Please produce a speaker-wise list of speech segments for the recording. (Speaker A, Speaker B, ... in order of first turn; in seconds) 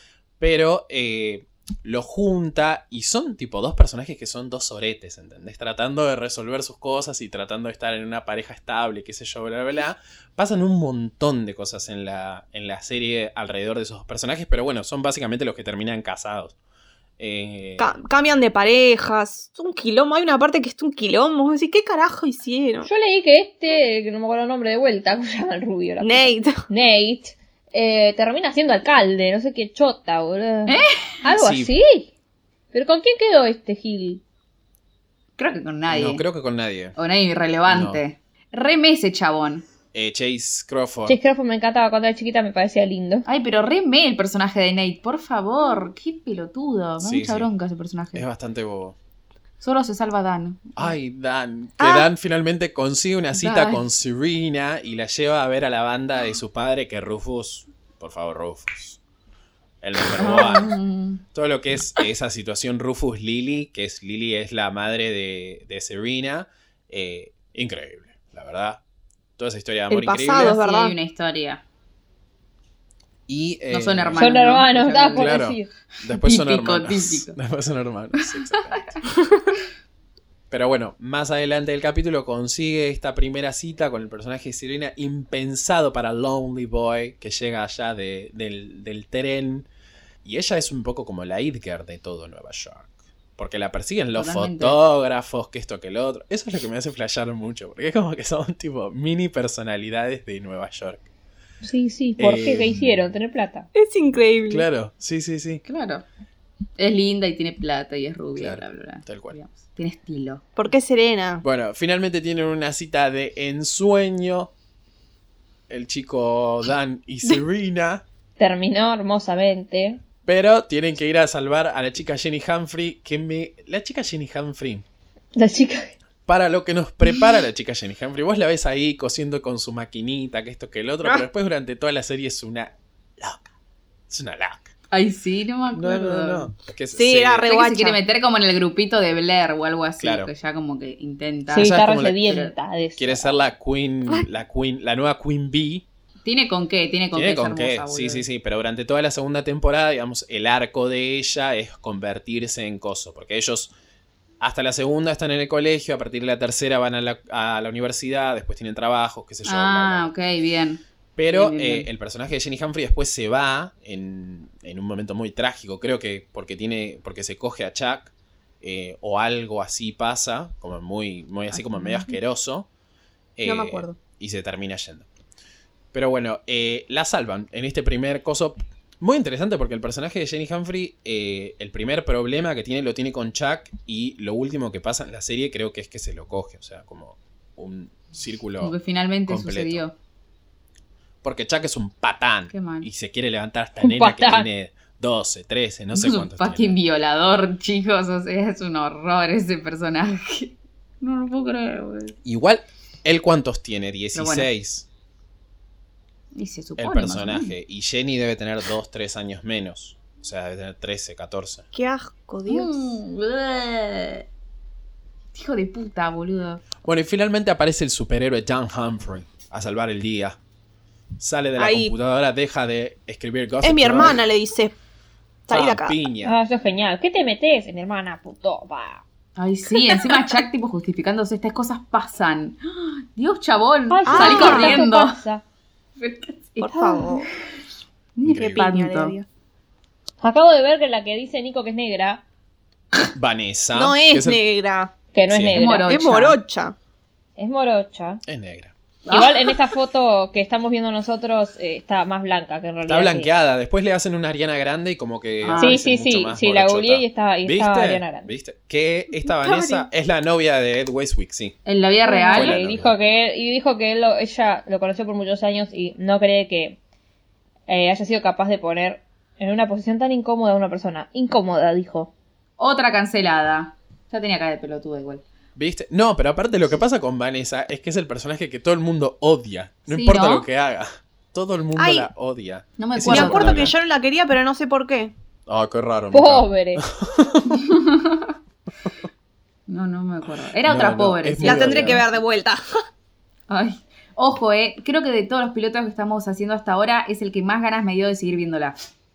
Speaker A: 0.4-16.6, 17.2-18.0, 31.3-31.7, 35.9-37.0, 37.7-38.0, 39.9-41.2, 47.0-47.5, 48.1-49.0, 50.8-59.0, 59.8-60.8, 61.3-68.8, 69.4-70.6, 73.3-74.3, 75.1-79.0, 80.5-89.7, 90.2-101.1, 102.2-103.0, 104.5-105.6, 108.4-109.4, 111.4-114.5, 115.7-118.0, 120.3-124.8, 126.3-133.5, 134.1-134.7, 135.7-137.5, 140.0-140.3, 141.5-142.2, 143.0-145.8, 147.1-153.7, 154.4-160.1, 161.2-172.7, 173.4-175.1, 175.9-188.8, 189.3-189.9, 191.2-196.8, 202.2-204.9, 206.8-211.7, 216.8-220.4, 221.2-224.2, 225.5-226.3, 238.2-238.7, 243.1-244.4, 245.3-245.7, 248.3-248.7, 252.9-261.6, 262.3-262.9, 275.6-283.8, 285.5-287.7, 290.6-292.1
Speaker B: 17.8-22.9, 26.0-26.6, 51.8-52.1, 69.9-71.0, 103.8-104.7, 110.6-111.4, 136.9-138.0, 173.4-174.0, 211.7-213.0, 221.6-221.9, 223.6-224.8, 225.5-226.0, 229.8-230.4, 234.1-234.9, 236.6-237.3, 238.4-239.3, 243.7-244.9, 245.9-246.8, 249.1-249.7, 259.2-259.9, 281.8-282.1, 283.1-285.1, 291.4-292.8
Speaker C: 22.9-32.1, 32.7-34.2, 41.1-43.3, 74.2-75.7, 101.6-103.7, 118.4-120.0, 125.4-125.9, 141.5-143.4, 193.8-194.5, 226.2-229.0, 233.9-235.4, 240.2-242.2, 245.1-246.0, 247.4-248.2, 249.1-253.3, 255.6-258.3, 262.1-266.8, 267.7-272.1, 286.1-286.8
Speaker D: 30.7-31.1, 35.4-36.2, 37.0-39.6, 43.3-48.3, 49.6-51.0, 53.4-53.9, 60.2-61.2, 70.3-71.6, 73.7-75.4, 76.1-77.4, 94.1-94.8, 105.7-106.0, 106.8-110.4, 134.9-136.5, 137.4-142.5, 146.2-148.3, 159.4-161.9, 171.5-172.2, 188.6-189.9, 192.5-192.9, 195.9-202.2, 204.2-204.5, 206.3-207.5, 212.5-214.2, 215.3-216.6, 229.4-235.2, 236.0-237.3, 238.2-239.2, 245.5-246.4, 255.4-255.8, 261.6-262.6, 272.6-275.2, 279.9-280.5, 282.8-283.7, 287.6-288.3, 289.7-292.0, 293.5-298.8